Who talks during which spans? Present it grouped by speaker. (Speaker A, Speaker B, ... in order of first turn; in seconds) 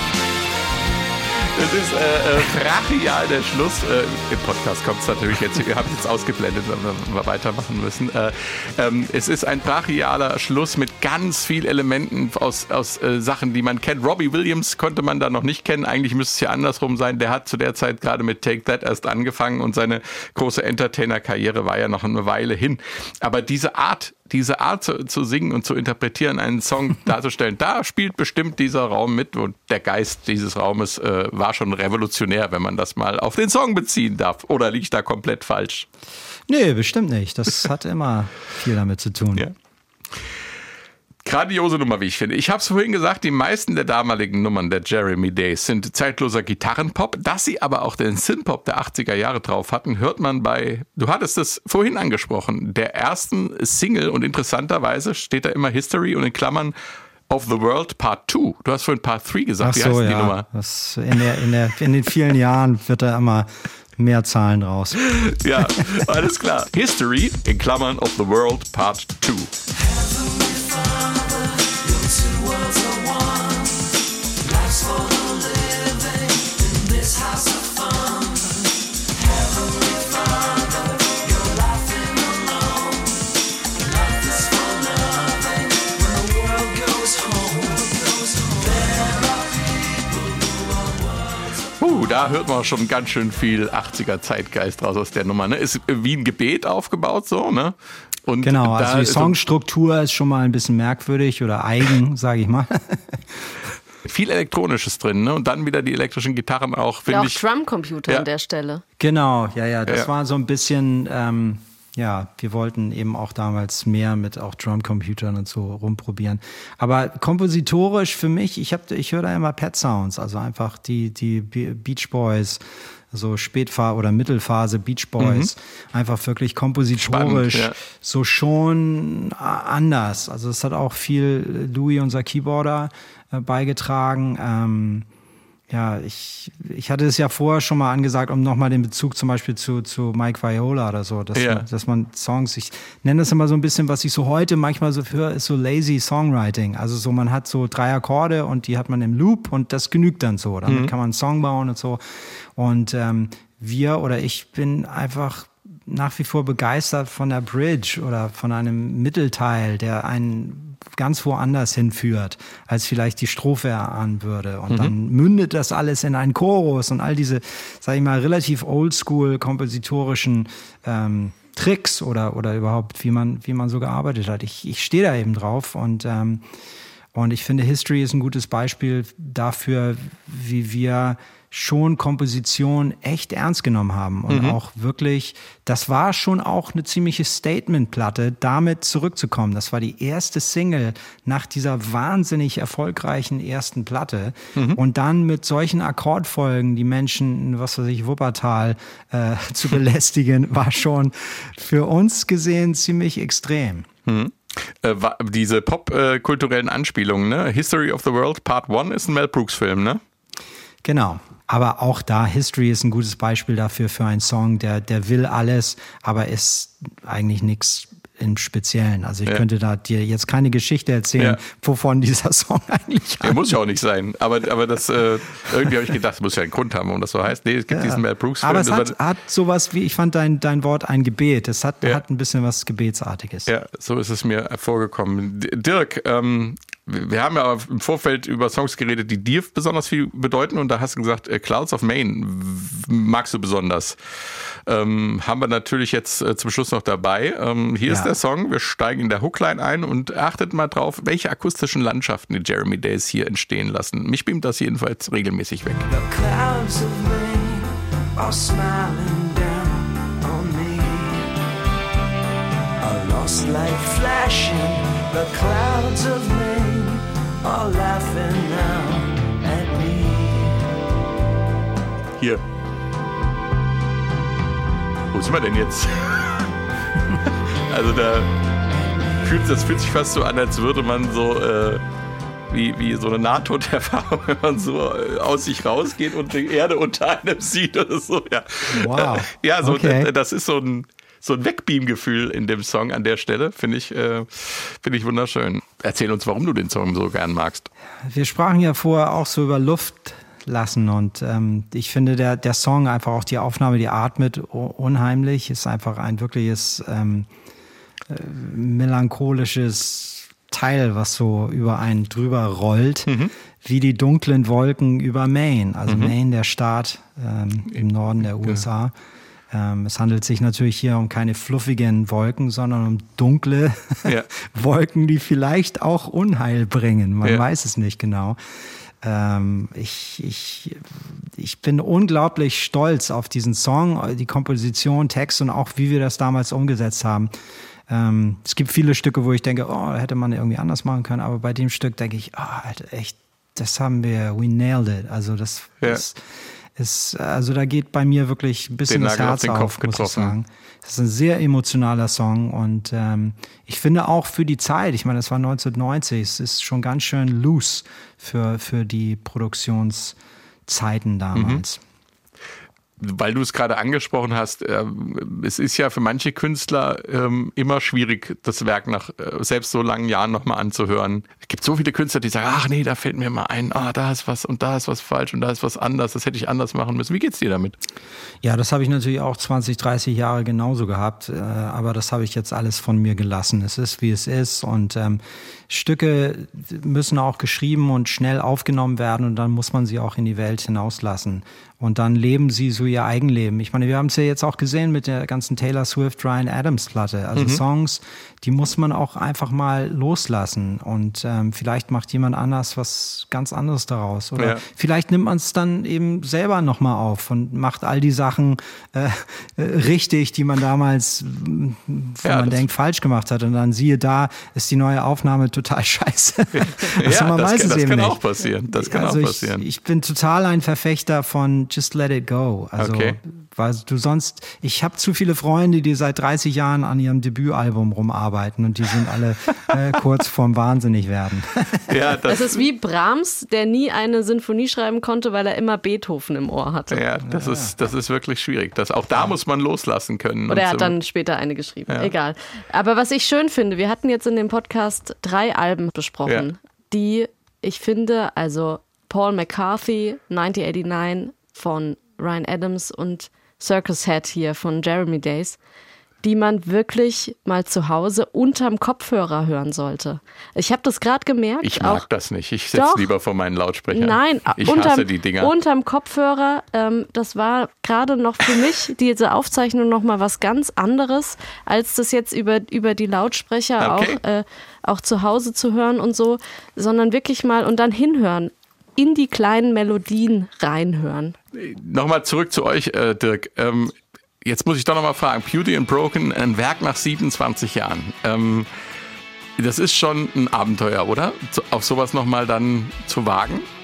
Speaker A: 1.4-35.9, 41.2-56.7, 57.3-60.5, 65.1-69.5, 91.8-99.3, 104.0-107.4, 125.2-125.5, 127.0-127.8, 141.3-141.6, 150.7-150.9, 184.3-184.6, 204.1-210.0, 223.2-228.9, 233.5-255.9, 275.1-276.4, 277.6-278.3, 279.2-281.8, 282.5-297.7, 313.1-313.3, 315.9-316.1, 348.9-350.4, 361.3-361.6, 363.0-377.8, 397.4-397.6, 412.2-412.6, 416.6-419.6, 422.8-423.2, 431.9-432.6, 436.9-440.9, 461.6-465.5, 473.8-474.2, 481.5-488.7, 489.6-493.7
Speaker B: 36.5-39.5, 59.6-65.9, 98.4-103.5, 109.0-135.1, 135.7-176.4, 177.1-203.9, 210.8-223.4, 227.7-233.5, 247.9-248.1, 288.7-290.1, 298.1-307.3, 308.1-318.9, 319.5-328.4, 329.0-337.3, 337.9-361.8, 378.4-418.2, 418.7-432.1, 437.2-437.7
Speaker C: 69.7-83.2, 83.8-91.6, 255.9-261.3, 262.8-270.7, 278.7-279.3
Speaker D: 107.1-108.8, 432.3-437.0, 440.5-455.6, 456.2-462.1, 462.7-463.1, 463.9-481.4